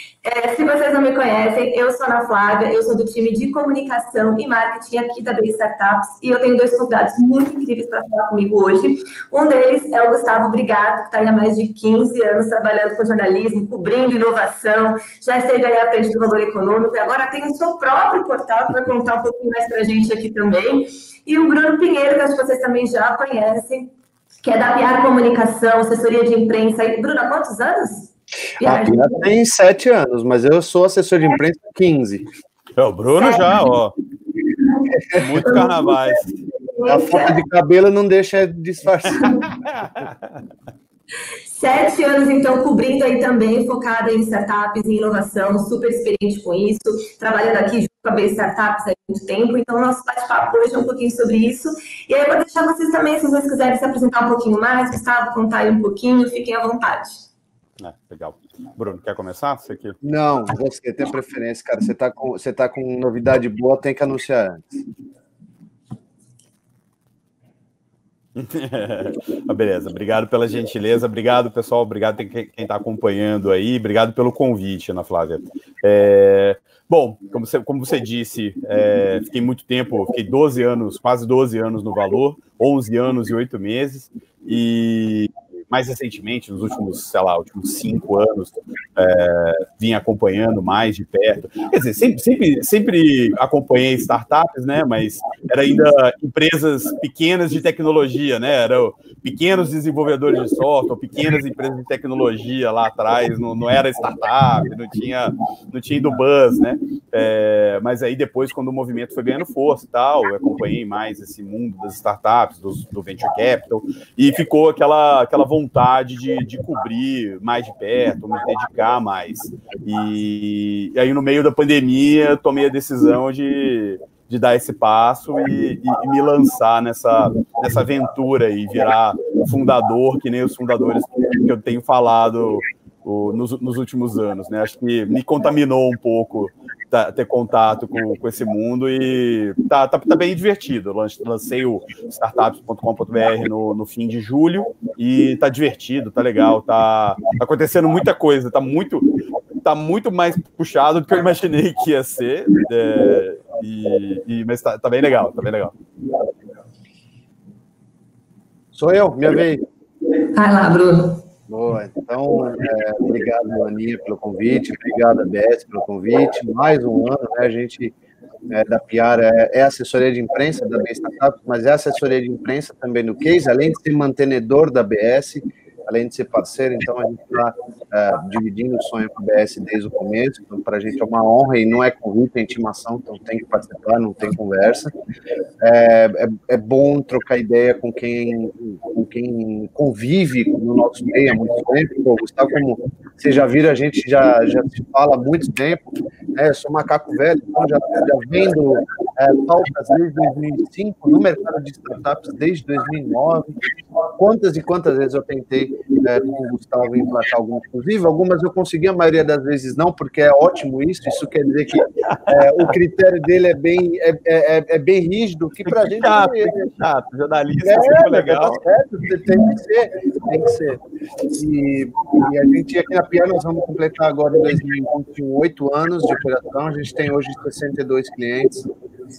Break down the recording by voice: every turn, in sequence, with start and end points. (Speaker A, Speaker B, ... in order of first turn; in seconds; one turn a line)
Speaker A: 0.2-23.9
Speaker A: 24.4-29.2
Speaker B: 28.6-32.2
Speaker C: 32.8-33.9
Speaker A: 33.2-33.5
Speaker C: 35.1-36.3
Speaker A: 35.4-37.4
Speaker B: 36.9-39.4
Speaker A: 39.1-39.4
Speaker C: 39.5-40.4
Speaker A: 41.5-57.3
Speaker C: 57.8-60.0
Speaker B: 60.0-64.7
Speaker C: 68.4-149.1
Speaker C: 149.6-155.7
Speaker B: 158.7-159.7
Speaker A: 160.3-161.2
Speaker B: 161.5-167.9
Speaker B: 168.5-184.9
Speaker B: 185.6-195.8
Speaker B: 196.3-216.7
Speaker C: 212.1-212.6
Speaker C: 215.7-218.6
Speaker B: 217.7-228.7